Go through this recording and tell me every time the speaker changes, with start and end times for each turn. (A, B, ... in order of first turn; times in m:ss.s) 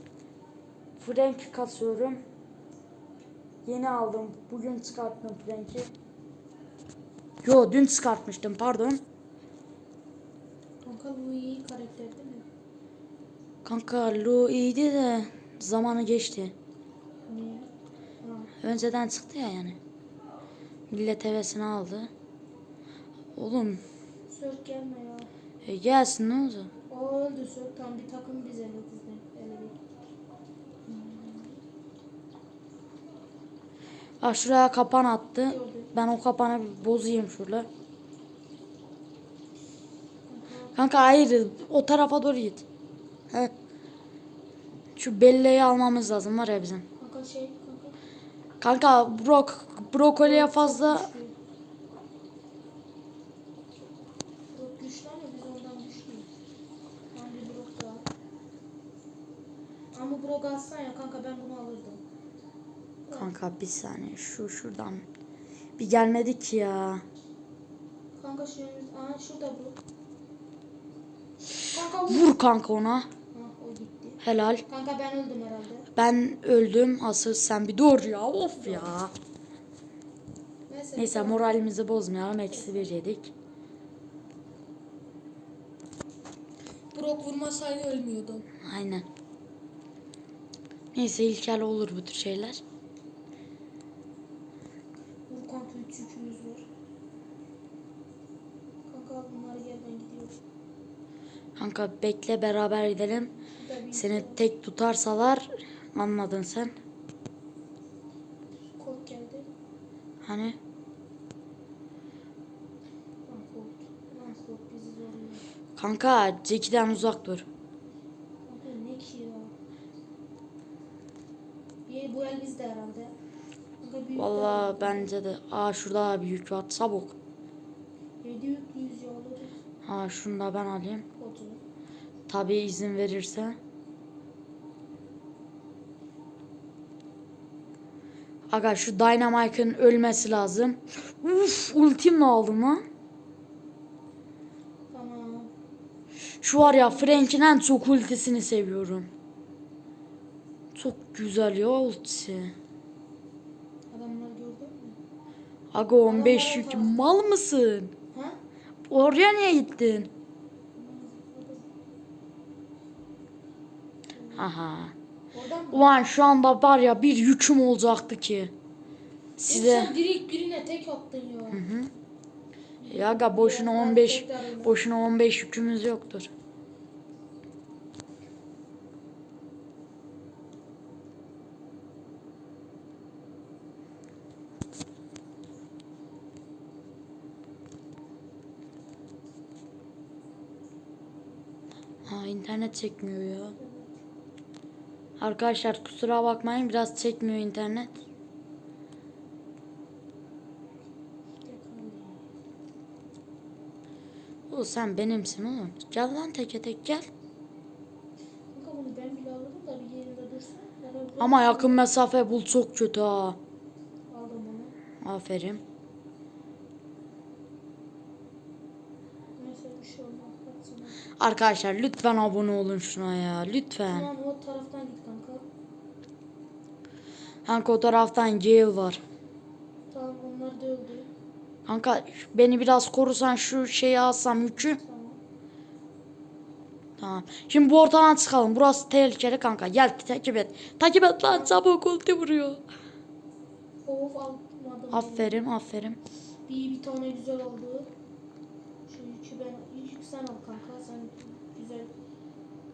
0:01.0-0:02.2 A
0:03.7-0:05.9 A
0:07.4-0:09.0 A
0:10.8-0:12.4 B
0:13.6-0:16.5 A
0:17.3-0:17.7 B
0:18.2-0:18.5 B
0:18.6-0:19.8 A
0:20.9-0:22.1 A
0:23.4-0:23.8 A
0:24.3-0:25.3 B
0:25.6-0:26.7 A
0:26.9-0:29.8 B
0:30.9-0:31.6 B
0:34.2-0:37.7 A
0:35.5-0:35.9 B
0:40.3-0:40.8 B
0:40.8-0:42.6 A
0:45.0-0:46.8 A
0:47.0-0:48.0 B
0:48.6-0:51.1 A
0:50.2-0:51.4 B
0:54.5-0:56.3 B
0:57.1-0:58.1 B
0:59.9-1:02.0 B
1:03.1-1:03.3 B
1:03.2-1:05.1 A
1:05.8-1:07.0 A
1:08.2-1:09.8 B
1:11.7-1:12.4 B
1:12.1-1:13.1 A
1:13.3-1:15.9 B
1:14.2-1:14.6 A
1:16.0-1:19.1 A
1:18.6-1:19.0 B
1:20.7-1:21.6 B
1:21.0-1:23.3 A
1:22.5-1:22.9 B
1:26.9-1:28.5 B
1:28.6-1:29.1 A
1:30.9-1:32.6 A
1:35.3-1:36.7 B
1:38.9-1:40.4 B
1:41.6-1:43.3 A
1:43.6-1:44.4 B
1:43.9-1:46.7 A
1:48.8-1:49.5 B
1:50.2-1:50.6 A
1:53.3-1:55.4 B
1:55.8-1:57.5 A
1:58.5-1:59.5 B
2:01.9-2:03.1 B
2:03.8-2:05.1 B
2:04.2-2:07.2 A
2:08.2-2:09.5 B
2:09.8-2:11.1 A
2:11.2-2:11.6 B
2:12.3-2:13.6 A
2:18.5-2:22.8 A
2:24.9-2:25.5 B
2:26.4-2:29.1 A
2:26.6-2:27.4 B
2:30.7-2:32.5 A
2:33.9-2:35.0 B
2:35.7-2:37.9 A
2:36.0-2:37.0 B
2:38.1-2:38.4 B
2:38.9-2:40.1 A
2:40.8-2:41.6 B
2:44.2-2:44.4 B
2:44.4-2:44.9 A
2:45.3-2:45.9 B
2:45.7-2:48.5 A
2:49.4-2:49.9 A
2:49.5-2:51.6 B
2:51.5-2:51.9 A
2:52.8-2:54.8 B
2:52.9-2:56.3 A
3:12.1-3:13.6 A
3:13.6-3:13.9 B
3:15.2-3:18.0 A
3:21.4-3:22.2 B
3:24.5-3:27.1 A
3:28.5-3:31.8 B
3:31.2-3:33.4 A
3:34.1-3:34.8 B
3:35.0-3:35.6 A
3:39.4-3:41.0 B
3:41.2-3:44.1 A
3:43.9-3:45.4 B
3:47.5-3:49.0 A
3:49.9-3:51.1 B
3:51.7-3:54.8 A
3:54.8-3:55.2 B
3:57.0-4:02.6 A
4:01.3-4:01.6 B
4:03.8-4:05.4 B
4:04.9-4:06.0 A
4:06.5-4:07.9 B
4:08.9-4:11.9 B